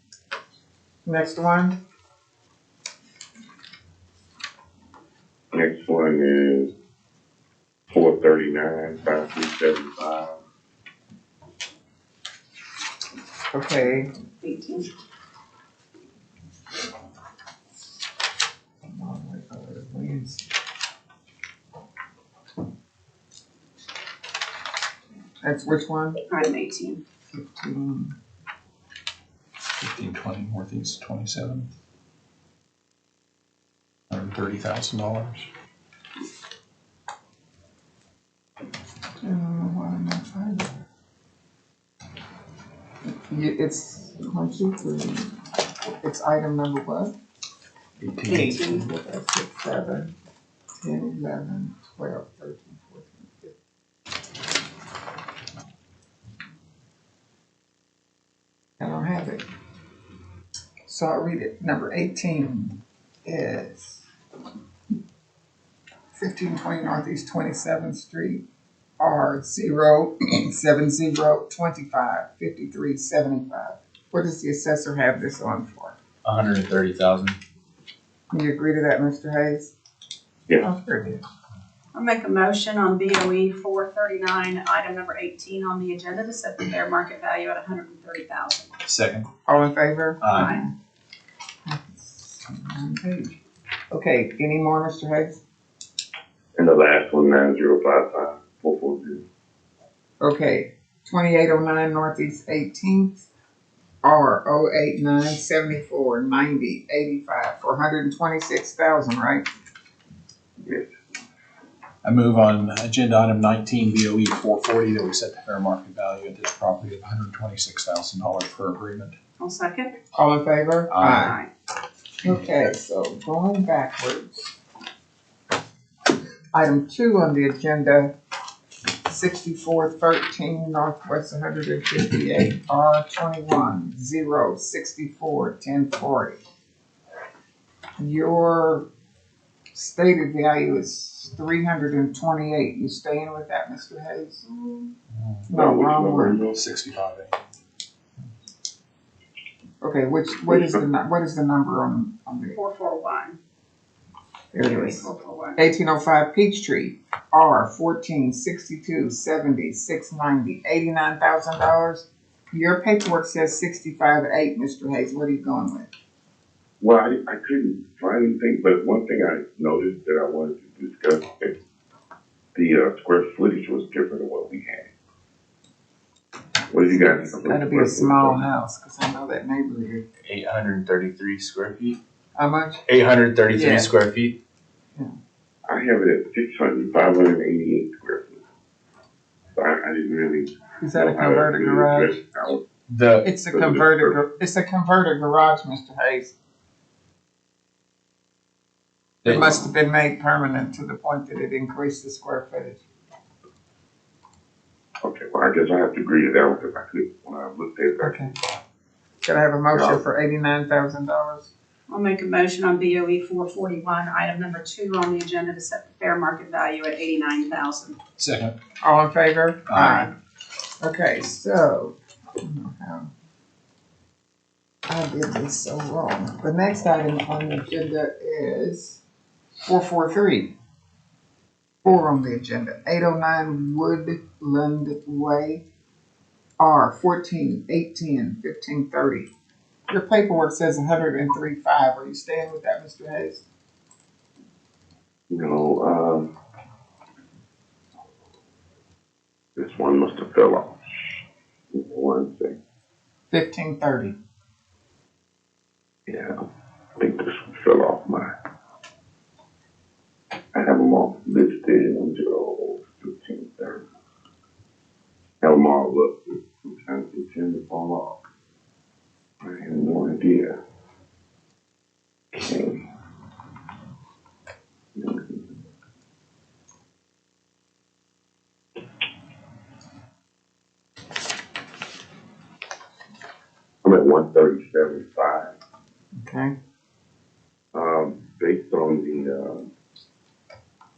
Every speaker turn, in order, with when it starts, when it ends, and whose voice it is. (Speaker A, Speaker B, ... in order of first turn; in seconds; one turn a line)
Speaker A: 1.1-1.8
Speaker B: 5.5-6.7
Speaker B: 7.9-10.4
Speaker A: 13.5-14.1
Speaker C: 14.4-14.9
Speaker A: 18.9-20.4
Speaker A: 25.4-26.2
Speaker C: 26.3-27.0
Speaker A: 27.3-28.1
Speaker D: 29.8-31.7
Speaker D: 34.1-35.5
Speaker A: 39.2-40.8
Speaker A: 43.3-45.3
Speaker A: 46.0-47.1
Speaker D: 48.0-48.8
Speaker C: 48.3-48.8
Speaker A: 48.3-50.1
Speaker A: 50.8-53.5
Speaker A: 58.8-59.4
Speaker A: 60.9-64.0
Speaker A: 66.1-68.4
Speaker A: 69.0-75.9
Speaker E: 76.2-77.3
Speaker A: 78.3-79.7
Speaker A: 80.6-81.2
Speaker C: 81.9-88.7
Speaker D: 88.8-89.3
Speaker A: 89.5-90.7
Speaker D: 90.2-90.5
Speaker C: 90.3-90.6
Speaker A: 91.7-93.3
Speaker A: 93.9-95.4
Speaker B: 96.5-99.2
Speaker A: 100.2-103.3
Speaker A: 104.0-109.4
Speaker D: 112.0-119.2
Speaker C: 119.4-120.0
Speaker A: 120.1-121.4
Speaker D: 120.9-121.3
Speaker C: 121.0-121.5
Speaker A: 122.2-124.5
Speaker A: 126.5-128.1
Speaker A: 129.1-136.4
Speaker A: 138.0-138.9
Speaker A: 139.7-144.4
Speaker C: 144.4-144.9
Speaker B: 145.5-146.5
Speaker A: 145.5-146.4
Speaker D: 146.5-147.4
Speaker A: 149.8-152.6
Speaker B: 150.5-150.8
Speaker C: 152.5-153.4
Speaker A: 154.5-165.9
Speaker C: 154.6-155.6
Speaker B: 166.8-171.6
Speaker B: 172.5-174.9
Speaker B: 176.7-178.4
Speaker A: 176.8-180.0
Speaker E: 180.3-181.9
Speaker A: 182.3-182.8
Speaker E: 182.9-184.3
Speaker A: 183.5-183.9
Speaker B: 185.7-188.4
Speaker B: 189.5-192.6
Speaker A: 190.8-192.2
Speaker E: 192.9-193.2
Speaker A: 193.2-196.3
Speaker B: 193.4-194.2
Speaker A: 199.2-202.8
Speaker B: 205.0-208.3
Speaker A: 208.0-208.3
Speaker A: 209.2-211.5
Speaker B: 209.7-210.0
Speaker C: 211.9-218.0
Speaker D: 218.2-218.5
Speaker A: 218.8-220.1
Speaker D: 219.7-220.1
Speaker A: 220.8-223.1
Speaker A: 224.9-229.0
Speaker A: 229.6-230.5
Speaker A: 231.8-235.6
Speaker A: 236.6-239.3
Speaker A: 239.9-243.4
Speaker B: 245.3-246.3
Speaker B: 249.6-251.2
Speaker B: 251.7-252.6
Speaker A: 253.3-254.1
Speaker B: 256.1-256.3
Speaker B: 257.0-258.3
Speaker B: 260.5-263.8
Speaker B: 265.4-268.2
Speaker B: 269.4-270.5
Speaker B: 272.3-272.8
Speaker B: 275.0-275.4
Speaker B: 283.8-285.5
Speaker A: 286.1-286.5
Speaker B: 287.7-289.7